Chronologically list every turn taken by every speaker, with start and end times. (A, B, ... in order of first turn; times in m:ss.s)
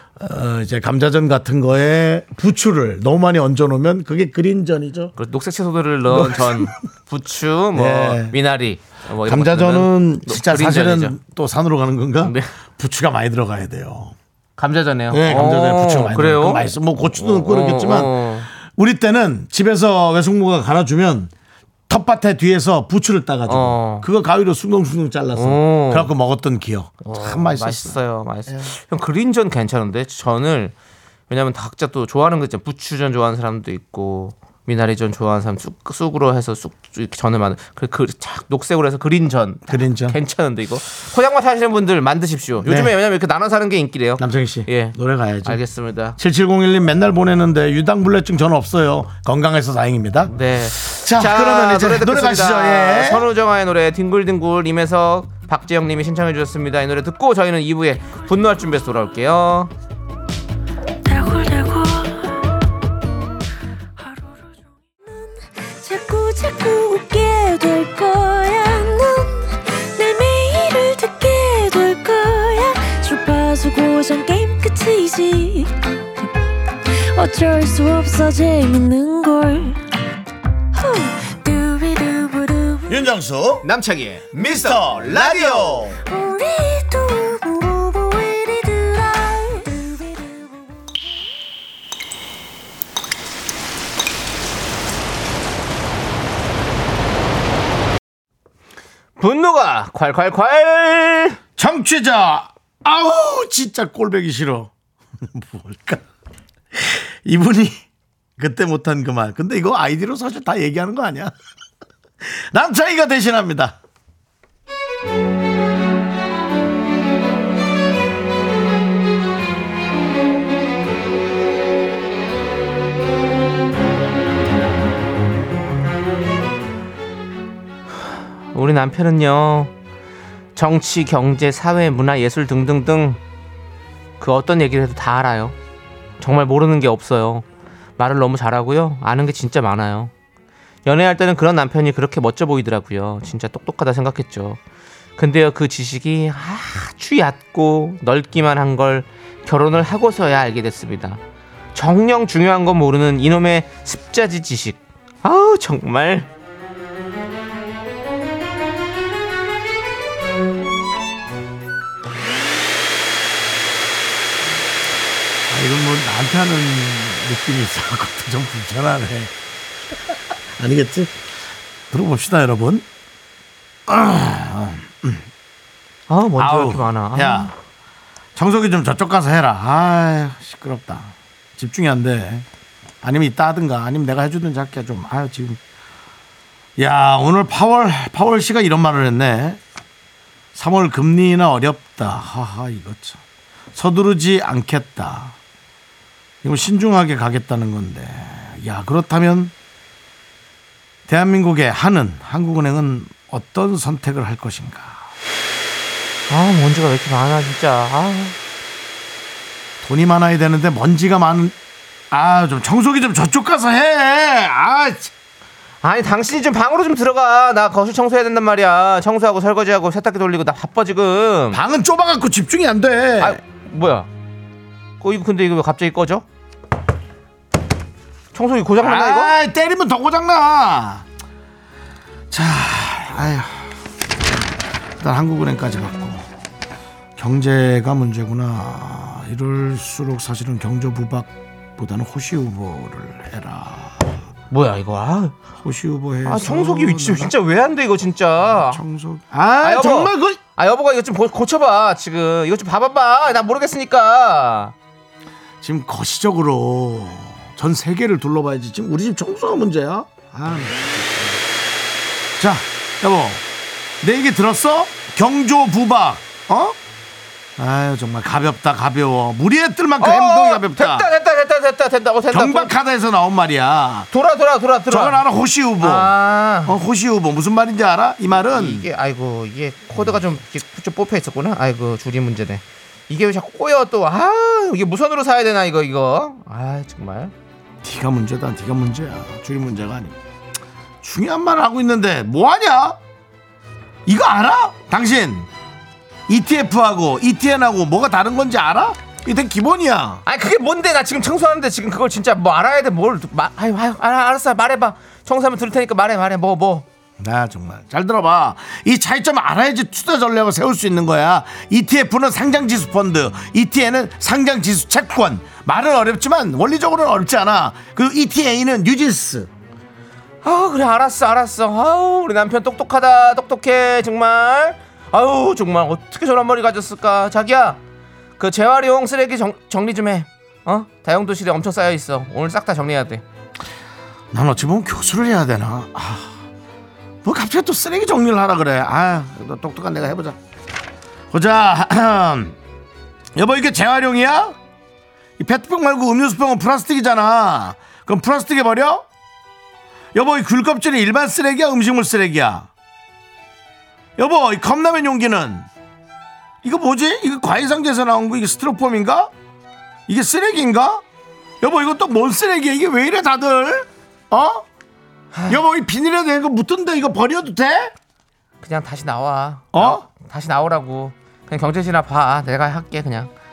0:00.2-0:05.1 A
0:05.2-0:11.2 B
0:06.1-0:06.7 A
0:07.7-0:08.4 A
0:09.2-0:14.2 A
0:12.2-0:12.5 B
0:14.6-0:18.5 B
0:15.1-0:21.3 A
0:21.9-0:28.7 A
0:23.5-0:24.1 B
0:25.4-0:26.1 B
0:27.0-0:30.7 B
0:31.3-0:46.2 B
0:39.7-0:40.2 A
0:42.6-0:43.0 A
0:44.2-0:45.6 A
0:46.2-0:53.3 A
0:50.3-0:59.7 B
1:01.0-1:02.5 C
1:04.0-1:15.8 C
1:16.9-1:19.8 C
1:20.7-1:23.0 C
1:22.9-1:23.7 A
1:23.6-1:25.9 B
1:24.3-1:26.0 A
1:26.1-1:30.6 C
1:39.2-1:41.4 B
1:41.6-1:46.0 A
1:46.7-1:47.8 A
1:48.4-1:51.3 A
1:52.2-1:53.8 A
2:08.5-2:09.7 B
2:10.6-2:13.2 B
2:14.2-2:15.6 B
2:16.2-2:17.4 B
2:18.0-2:20.1 B
2:20.8-2:24.6 B
2:25.2-2:31.2 B
2:31.8-2:36.3 B
2:45.5-2:49.3 A
2:49.9-2:51.2 A
2:51.9-2:52.9 A
2:53.9-2:55.3 A
2:56.1-2:57.5 B
2:56.4-2:57.5 A
2:58.4-3:02.5 A
3:03.0-3:05.6 A
3:06.8-3:09.6 A
3:10.6-3:13.2 A
3:13.8-3:15.4 A
3:16.4-3:19.5 A
3:21.1-3:25.1 A
3:26.3-3:28.4 B
3:29.8-3:31.6 A
3:32.1-3:35.1 A
3:35.8-3:41.6 B
3:41.5-3:43.4 A
3:43.2-3:44.1 B
3:45.0-3:46.2 B
3:48.3-3:49.4 B
3:48.8-3:51.0 A
3:52.3-3:53.8 A
3:55.0-3:56.3 A
3:57.2-4:04.2 A
4:04.5-4:05.4 B
4:05.6-4:07.3 A
4:06.2-4:08.8 B
4:08.5-4:10.4 A
4:09.6-4:14.7 B
4:15.6-4:21.4 A
4:22.4-4:23.4 A
4:24.0-4:26.8 A
4:27.6-4:31.1 A
4:30.0-4:32.7 B
4:32.3-4:34.1 A
4:34.1-4:35.2 B
4:34.9-4:36.1 A
4:35.8-4:36.8 B
4:36.6-4:38.9 A
4:38.4-4:47.3 B
4:47.8-4:50.2 A
4:51.0-4:53.0 A
4:54.1-4:55.5 A
4:56.3-5:00.2 A
5:00.2-5:06.9 B
5:07.2-5:19.5 A
5:20.4-5:27.8 B
5:28.4-5:33.2 B
5:34.3-5:36.3 A
5:37.2-5:40.4 A
5:41.3-5:42.6 A
5:43.4-5:44.6 A
5:45.4-5:49.0 A
5:50.1-5:52.7 A
5:54.2-5:55.7 A
5:56.6-5:59.3 A
6:00.1-6:01.0 A
6:01.6-6:04.6 A
6:05.3-6:05.6 B
6:05.5-6:07.9 A
6:08.6-6:13.3 B
6:09.7-6:10.0 A